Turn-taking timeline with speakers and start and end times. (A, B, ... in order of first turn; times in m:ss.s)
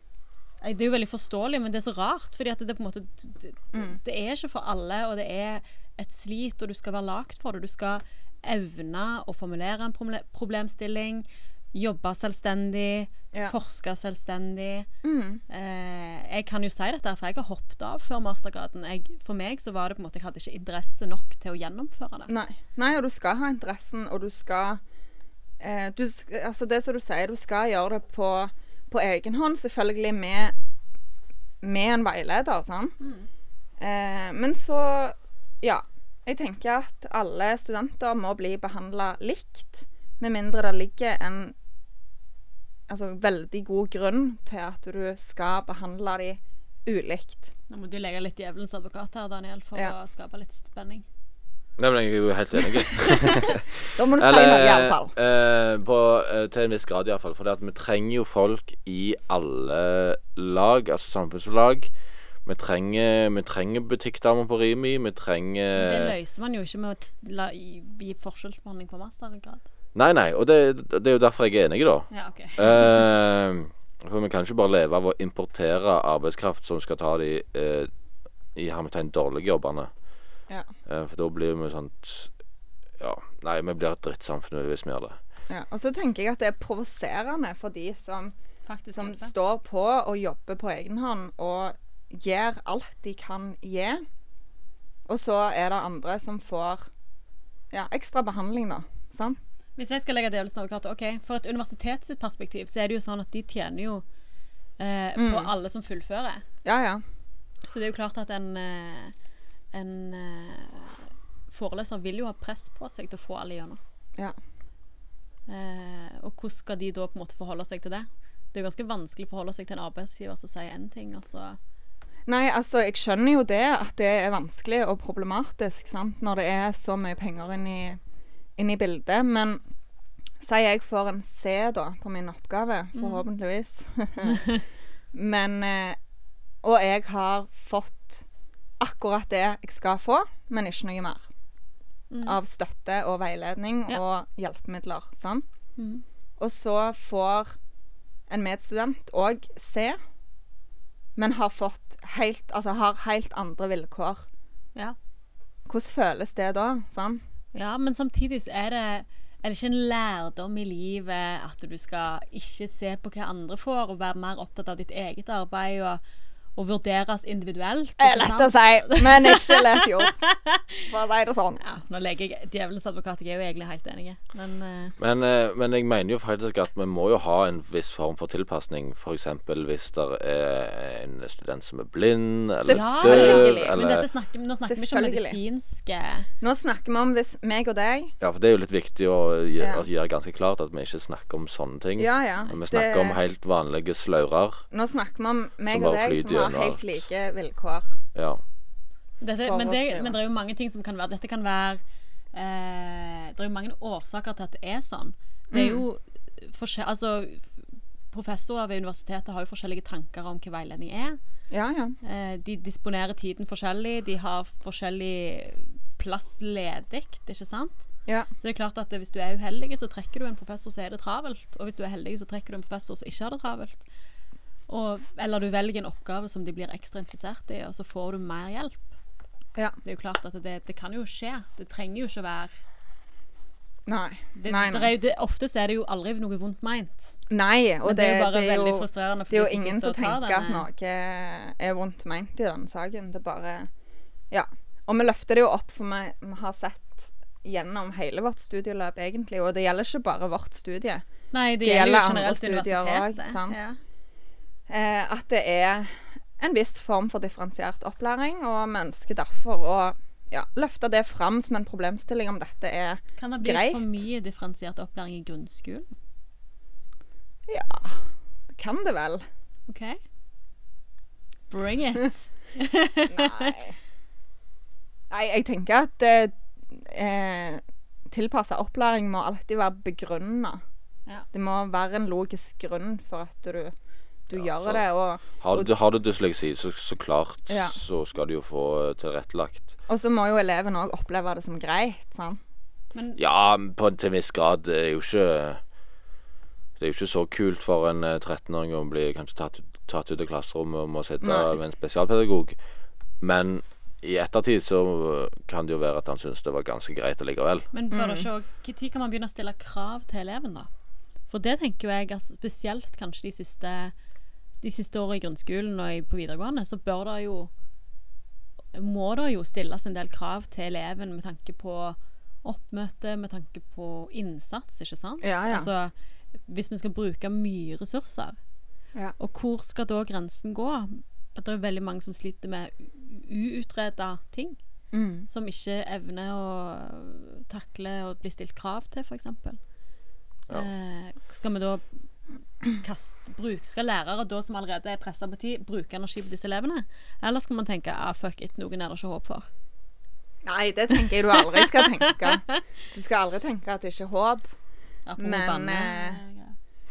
0:00.6-0:14.9 A
0:15.0-0:15.4 B
0:15.5-0:22.3 A
0:22.3-0:24.8 B
0:25.6-0:30.5 B
0:31.6-0:33.0 B
0:33.0-0:33.3 A
0:33.8-0:41.5 B
0:42.9-0:47.5 B
0:47.7-0:51.0 A
0:51.8-1:01.9 C
0:52.9-0:53.6 A
0:53.9-0:55.1 B
1:02.4-1:06.1 C
1:05.7-1:09.6 A
1:09.9-1:17.9 C
1:12.1-1:13.0 A
1:18.5-1:19.9 C
1:20.8-1:22.3 C
1:23.0-1:25.2 C
1:25.5-1:28.3 B
1:28.7-1:29.3 A
1:29.0-1:34.0 B
1:35.1-1:36.9 B
1:37.7-1:39.4 B
1:39.8-1:44.0 A
1:44.8-1:46.4 A
1:45.2-1:45.5 B
1:46.6-1:47.0 B
1:47.6-1:49.1 A
1:49.7-1:53.8 A
1:55.5-2:01.6 A
2:02.3-2:08.0 B
2:08.6-2:09.6 B
2:10.4-2:14.5 B
2:13.0-2:13.2 A
2:14.3-2:14.6 A
2:15.1-2:16.0 B
2:16.6-2:18.2 B
2:18.8-2:21.2 B
2:22.1-2:22.4 A
2:22.2-2:25.4 B
2:25.8-2:26.0 A
2:26.4-2:27.6 B
2:28.3-2:30.0 B
2:31.2-2:34.2 B
2:35.7-2:37.2 B
2:37.5-2:46.0 A
2:46.6-2:50.8 A
2:48.0-2:50.2 B
2:50.9-2:51.6 B
2:51.6-2:54.9 A
2:55.0-3:04.0 C
3:02.6-3:03.8 B
3:02.7-3:06.3 A
3:04.6-3:05.4 B
3:06.4-3:08.1 B
3:08.2-3:14.6 C
3:09.6-3:09.8 B
3:12.0-3:13.2 B
3:14.7-3:18.0 B
3:15.7-3:17.0 C
3:18.1-3:18.4 C
3:19.2-3:21.8 A
3:19.4-3:20.1 B
3:22.3-3:27.6 A
3:25.5-3:25.8 B
3:28.1-3:31.2 A
3:31.5-3:32.0 B
3:32.0-3:37.8 A
3:38.4-3:43.8 A
3:44.7-3:48.8 A
3:49.8-3:52.5 A
3:53.9-3:54.9 B
3:54.4-3:57.1 A
3:57.3-4:03.7 B
3:57.8-4:00.6 A
4:04.3-4:11.0 B
4:11.3-4:13.8 A
4:11.6-4:13.6 B
4:14.7-4:23.8 B
4:23.2-4:25.9 A
4:27.5-4:29.2 B
4:29.7-4:30.0 A
4:31.5-4:33.6 A
4:33.1-4:33.7 B
4:35.1-4:40.6 B
4:41.3-4:43.7 B
4:44.3-4:45.7 B
4:44.3-4:44.8 C
4:45.4-4:49.7 C
4:47.5-4:47.8 B
4:49.9-4:52.4 B
4:52.9-4:53.2 A
4:53.2-4:55.6 C
4:56.8-5:02.6 C
5:01.2-5:01.5 B
5:03.2-5:07.7 C
5:07.7-5:10.7 A
5:07.9-5:08.3 B
5:11.3-5:13.9 A
5:14.6-5:17.5 A
5:18.7-5:25.9 A
5:25.2-5:25.7 B
5:26.5-5:28.4 A
5:29.2-5:34.6 A
5:34.9-5:35.3 B
5:35.3-5:39.6 A
5:40.5-5:41.8 A
5:42.7-5:49.5 A
5:50.4-5:54.5 B
5:51.4-5:52.6 A
5:55.1-5:56.5 A
5:55.2-5:56.2 B